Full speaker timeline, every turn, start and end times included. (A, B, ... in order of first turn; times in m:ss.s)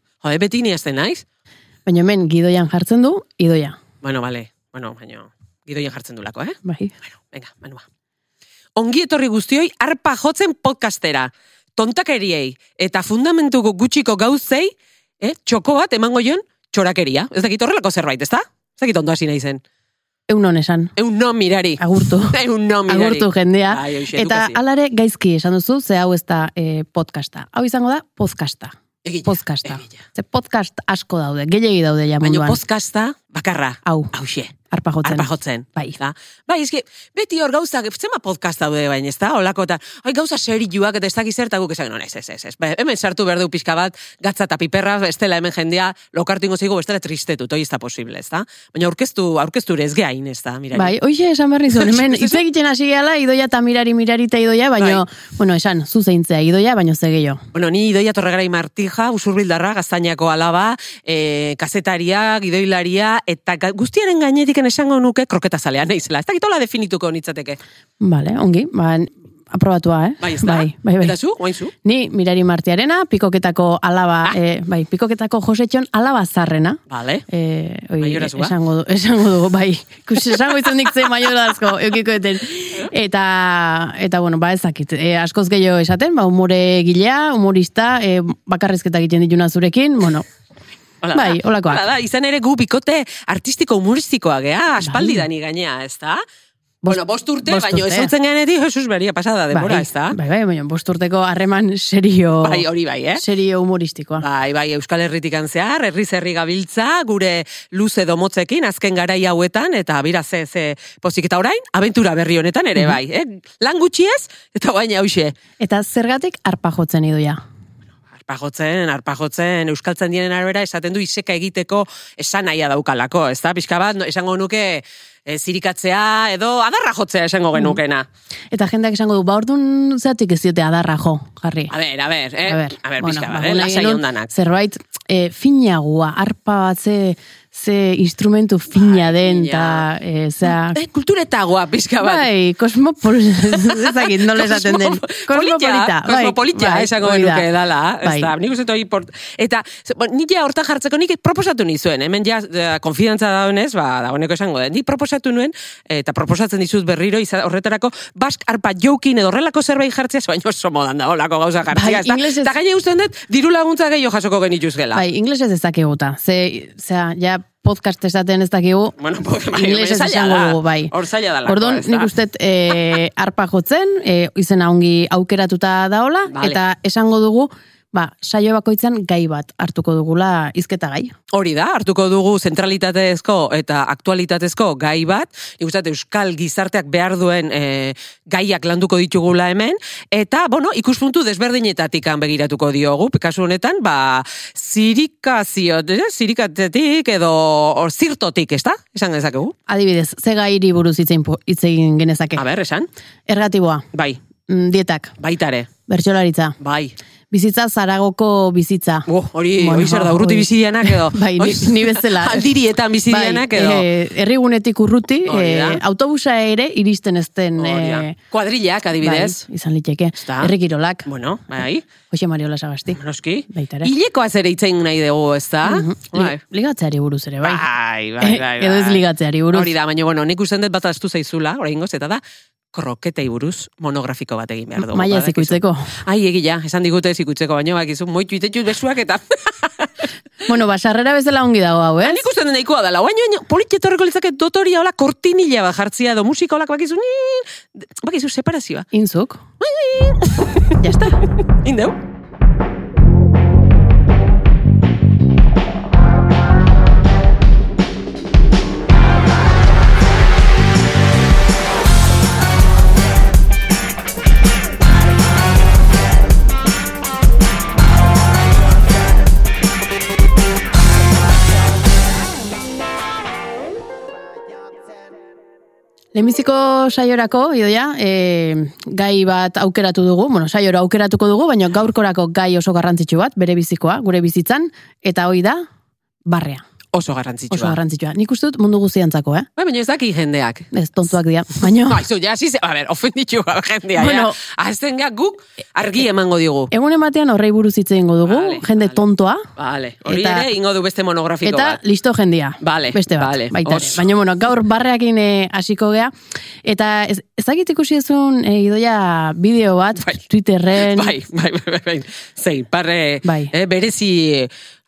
0:00.2-0:01.2 A
0:01.9-0:03.8 B
0:04.0-0:06.6 A
0:06.6-0:06.9 B
0:07.2-0:07.8 A
0:08.8-0:19.6 A
0:20.3-0:20.9 B
0:21.0-0:24.6 A
0:21.8-0:28.8 B
0:29.0-0:30.0 A
0:29.3-0:32.6 B
0:32.2-0:34.5 A
0:33.8-0:34.1 B
0:34.7-0:36.0 B
0:35.0-0:50.9 A
0:50.8-0:57.4 B
0:51.8-0:52.4 A
0:57.5-1:07.6 A
1:08.0-1:11.2 B
1:10.2-1:11.7 A
1:11.8-1:16.8 B
1:16.9-1:17.2 A
1:17.3-1:30.3 B
1:18.0-1:18.5 A
1:31.0-1:36.2 A
1:31.1-1:31.8 B
1:34.8-1:35.2 B
1:36.8-1:38.1 B
1:36.9-1:40.2 A
1:39.5-1:44.3 B
1:42.4-1:43.2 A
1:44.2-1:55.3 A
1:55.6-1:57.4 B
1:58.2-2:08.1 A
2:08.5-2:11.7 B
2:11.7-2:14.3 A
2:12.5-2:20.8 B
2:18.8-2:19.8 A
2:20.5-2:22.3 A
2:22.0-2:27.5 B
2:23.5-2:45.0 A
2:28.0-2:28.3 B
2:41.7-2:42.5 B
2:45.0-2:49.0 B
2:49.0-2:52.1 A
2:49.5-2:50.9 B
2:51.5-3:01.1 B
2:56.3-2:56.6 A
3:01.3-3:19.6 A
3:19.7-3:22.4 B
3:22.4-3:22.9 A
3:23.3-3:23.8 B
3:23.9-3:24.2 A
3:24.5-3:25.1 B
3:25.2-3:25.7 A
3:25.9-3:26.6 B
3:26.6-3:27.0 A
3:27.3-3:32.6 B
3:29.1-3:33.9 A
3:33.1-3:38.2 B
3:35.3-3:35.8 A
3:37.6-3:39.4 A
3:39.0-3:41.1 B
3:40.2-3:40.5 A
3:41.1-3:41.8 A
3:42.1-3:43.0 B
3:43.0-3:46.4 A
3:43.5-3:43.9 B
3:45.6-3:47.6 B
3:47.4-3:52.2 A
3:48.2-3:49.7 B
3:52.7-4:00.1 A
3:54.8-3:55.9 B
4:00.5-4:02.3 B
4:02.0-4:08.9 A
4:08.9-4:09.4 B
4:09.6-4:10.5 A
4:10.8-4:11.2 B
4:11.6-4:12.0 A
4:36.1-4:45.7 B
4:46.3-4:46.6 B
4:46.9-4:47.8 A
4:47.5-4:49.5 B
4:49.6-4:50.7 A
4:50.7-4:52.0 B
4:51.8-4:56.7 A
4:54.0-4:54.4 B
4:56.7-4:59.5 B
4:58.3-4:59.0 A
4:59.6-5:01.8 A
5:00.1-5:00.5 B
5:01.4-5:06.1 B
5:02.6-5:04.0 A
5:06.6-5:11.2 B
5:10.8-5:14.5 A
5:13.2-5:13.5 B